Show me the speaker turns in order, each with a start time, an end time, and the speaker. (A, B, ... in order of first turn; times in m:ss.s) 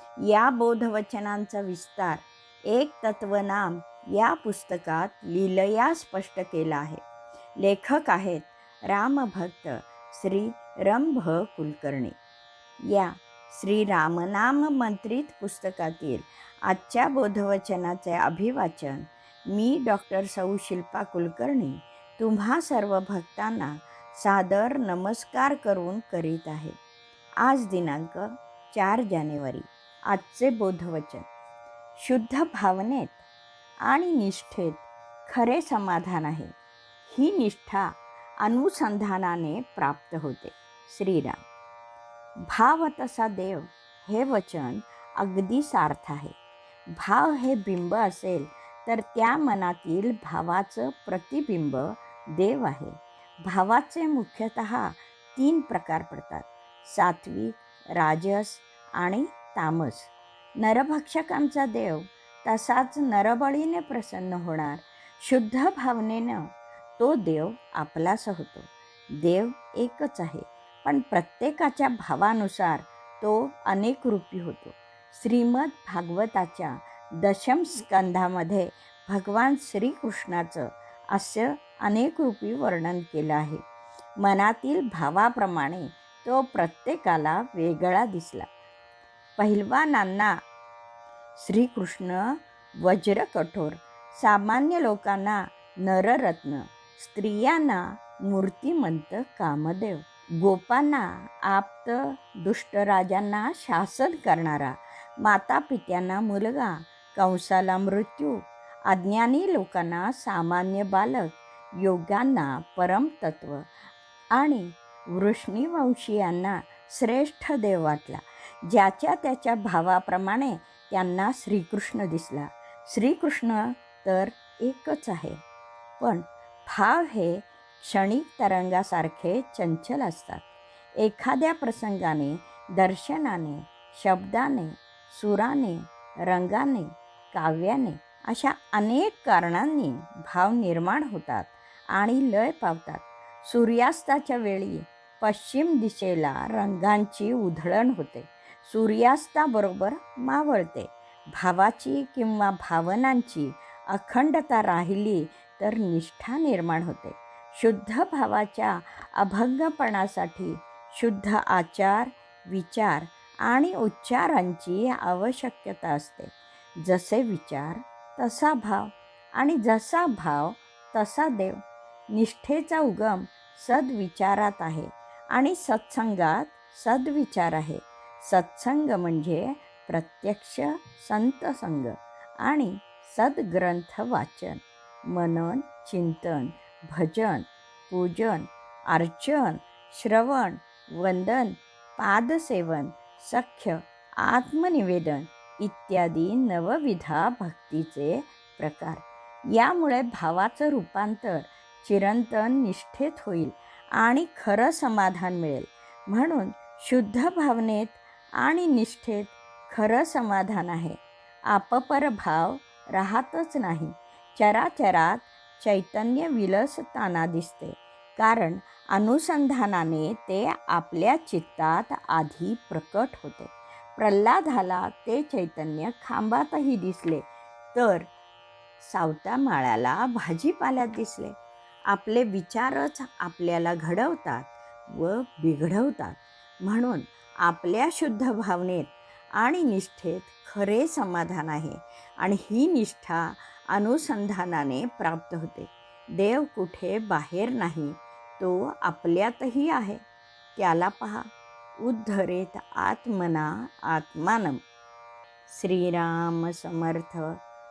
0:00.2-0:07.0 A
0:07.6-0:12.2 A
0:12.9-0:26.8 A
0:27.4-0:31.3 A
0:32.0-0:33.2 A
0:33.9-0:36.5 A
0:37.1-0:37.9 A
0:38.4-0:41.4 A
0:42.5-0:46.4 A
0:47.0-1:08.7 A
1:09.2-1:23.6 A
1:24.2-1:28.5 A
1:29.4-1:30.3 A
1:31.4-1:53.6 A
1:54.4-2:05.4 A
2:06.0-2:10.4 A
2:11.0-2:46.3 A
2:46.8-2:51.6 A
2:52.1-3:47.2 A
3:47.7-3:48.1 A
3:48.8-3:51.4 A
3:51.9-4:10.0 A
4:10.6-4:11.3 A
4:11.8-4:14.6 A
4:15.5-4:17.4 A